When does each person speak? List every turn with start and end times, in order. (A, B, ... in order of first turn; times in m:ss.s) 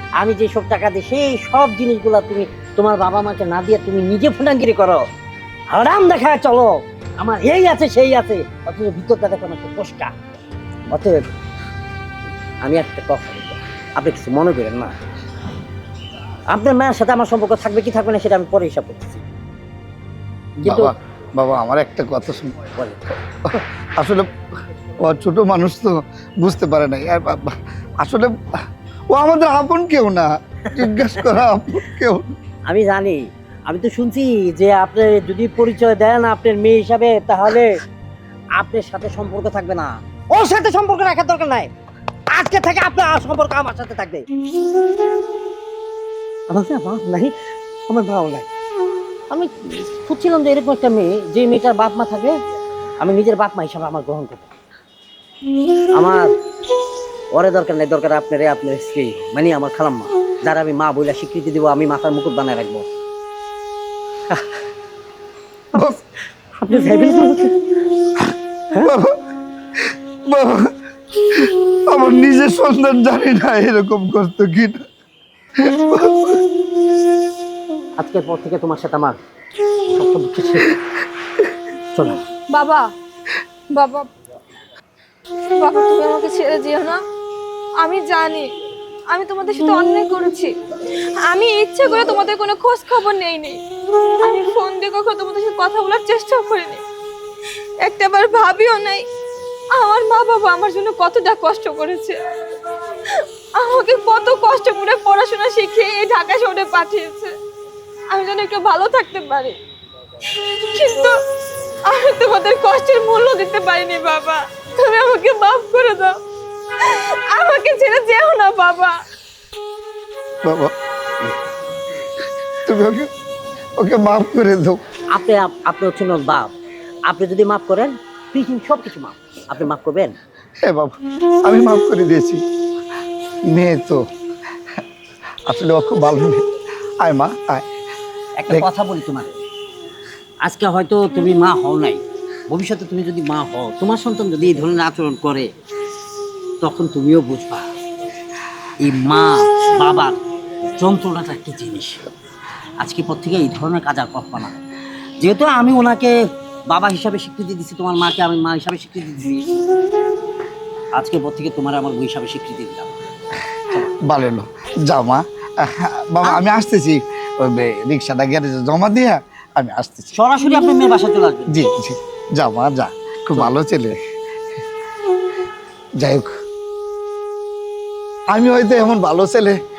0:00.2-0:05.1 A
0:05.7-0:10.1 A
0:10.9-0:11.3 A
0:12.6-0:15.0 A
0:16.5-0:19.2 A
0:20.6-0:20.9 A
0:20.6-0:22.7 B
0:22.8-0:23.0 A
0:23.4-0:24.3 B
0:25.0-0:28.6 B
0:29.1-0:32.3 B
0:30.8-0:31.3 A
0:32.7-0:37.8 A
0:38.6-0:41.7 A
0:42.3-0:44.2 A
0:46.5-0:47.3 A
0:47.9-0:48.5 A
0:49.3-0:52.4 A
0:53.0-0:54.5 A
0:55.9-0:56.3 A
0:57.3-1:02.9 A
1:05.7-1:07.7 A
1:08.8-1:09.2 B
1:09.8-1:14.8 B
1:15.6-1:16.4 B
1:18.0-1:19.2 A
1:19.7-1:20.8 A
1:21.9-1:22.2 A
1:22.5-1:22.9 C
1:23.7-1:24.1 C
1:25.5-1:27.0 C
1:27.8-1:28.5 C
1:29.1-1:33.6 C
1:34.2-1:36.8 C
1:37.8-1:39.0 C
1:39.7-1:42.2 C
1:43.1-1:47.3 C
1:48.1-1:49.6 C
1:50.2-1:51.1 C
1:51.9-1:56.2 C
1:56.8-1:59.0 C
2:00.4-2:00.7 B
2:02.6-2:03.1 B
2:03.8-2:04.8 B
2:05.1-2:06.5 A
2:07.1-2:10.2 A
2:10.6-2:12.4 B
2:13.5-2:14.0 B
2:15.4-2:16.5 B
2:17.0-2:17.6 B
2:18.4-2:19.3 A
2:20.4-2:25.5 A
2:26.6-2:27.7 A
2:28.8-2:30.2 A
2:30.8-2:32.0 A
2:32.8-2:34.6 A
2:35.2-2:36.2 A
2:36.7-2:39.6 A
2:40.9-2:42.9 A
2:44.0-2:50.1 B
2:50.1-2:51.5 A
2:51.5-2:54.0 B
2:56.0-2:56.3 B
2:58.3-2:59.6 B